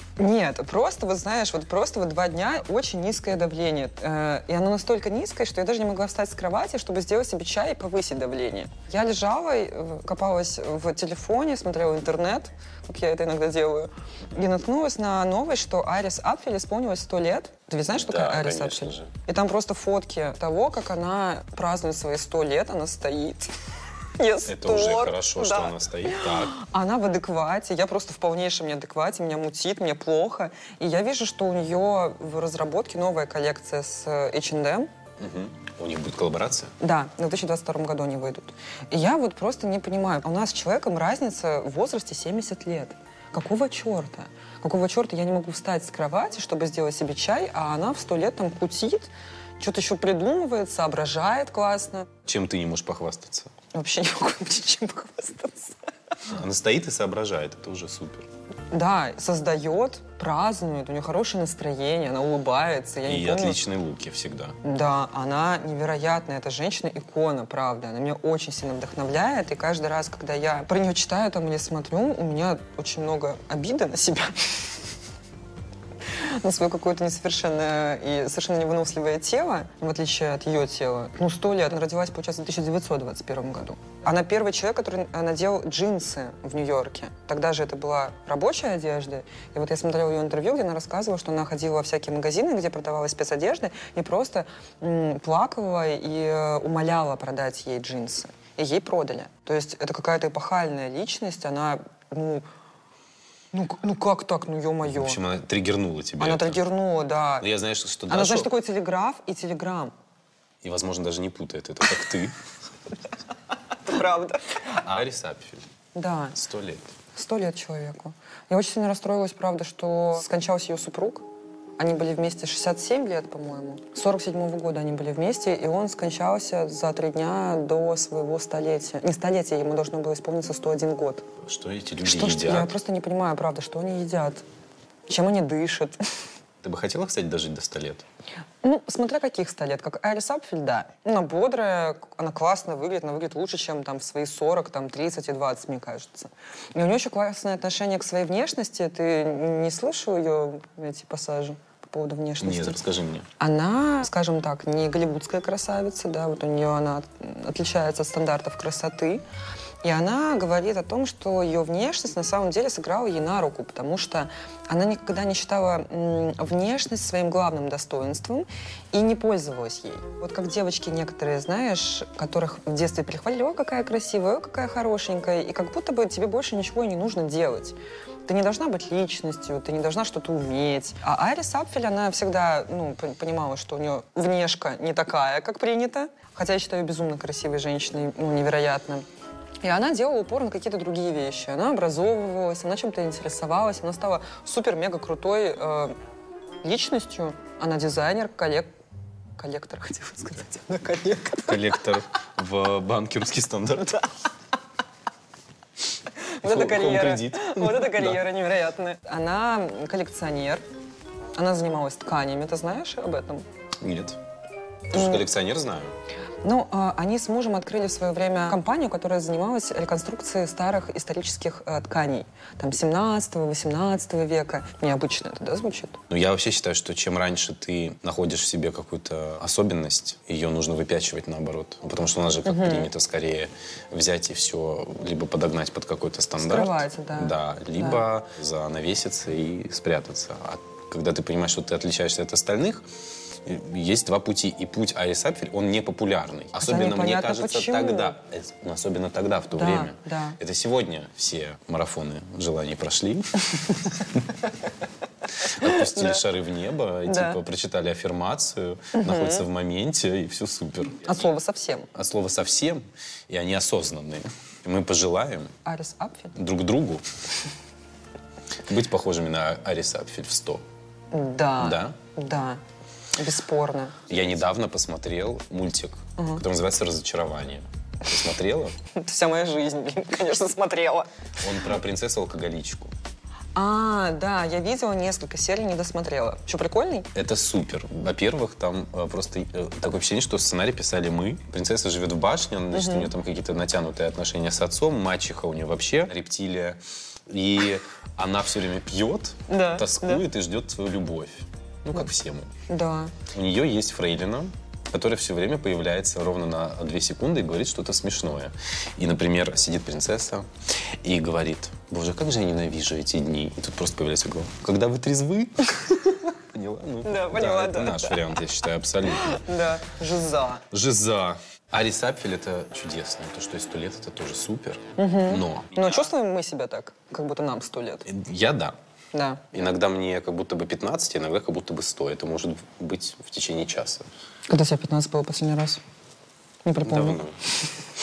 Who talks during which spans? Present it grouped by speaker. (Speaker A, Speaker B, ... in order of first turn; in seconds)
Speaker A: 0.2-23.5, 24.2-34.9, 36.8-52.1, 53.7-55.8, 58.7-63.6, 64.6-74.7, 76.1-102.4, 103.5-105.2, 106.2-107.5, 108.1-109.9, 113.8-114.7, 115.9-116.4, 117.1-121.2, 121.8-131.2, 132.0-134.4, 135.1-136.0, 138.6-152.8, 153.4-159.2, 159.8-189.1, 189.6-195.9, 196.6-198.7, 199.4-201.8, 206.3-210.6, 211.4-213.4, 214.9-215.3, 216.4-226.0, 232.4-232.9, 236.4-238.0, 246.6-248.2, 249.5-250.4, 255.6-256.2, 257.1-257.4, 258.9-259.4, 261.0-261.9, 265.6-266.4, 271.1-272.6, 273.2-274.1, 276.2-276.4, 278.9-281.1, 283.5-287.1, 292.7-293.1, 299.5-300.2, 302.7-303.2, 317.0-318.3, 319.1-320.6, 325.0-328.1, 329.1-329.5, 334.5-335.8, 336.6-337.2
Speaker B: 17.9-19.1, 24.4-26.6, 35.2-36.7, 52.2-53.5, 56.2-58.3, 63.1-64.6, 104.8-106.6, 107.4-108.5, 110.6-112.3, 114.8-115.6, 116.3-116.9, 131.4-132.8, 136.6-138.1, 152.4-153.3, 201.4-204.0, 206.4-208.2, 213.8-214.2, 214.9-215.9, 226.1-242.9, 243.4-254.3, 255.4-261.2, 261.9-265.5, 266.4-267.0, 268.6-270.6, 271.6-272.0, 274.1-278.8, 281.4-282.9, 287.1-302.5, 303.3-310.5, 311.0-319.4, 320.7-326.1, 328.1-328.8, 329.5-334.1, 336.8-337.4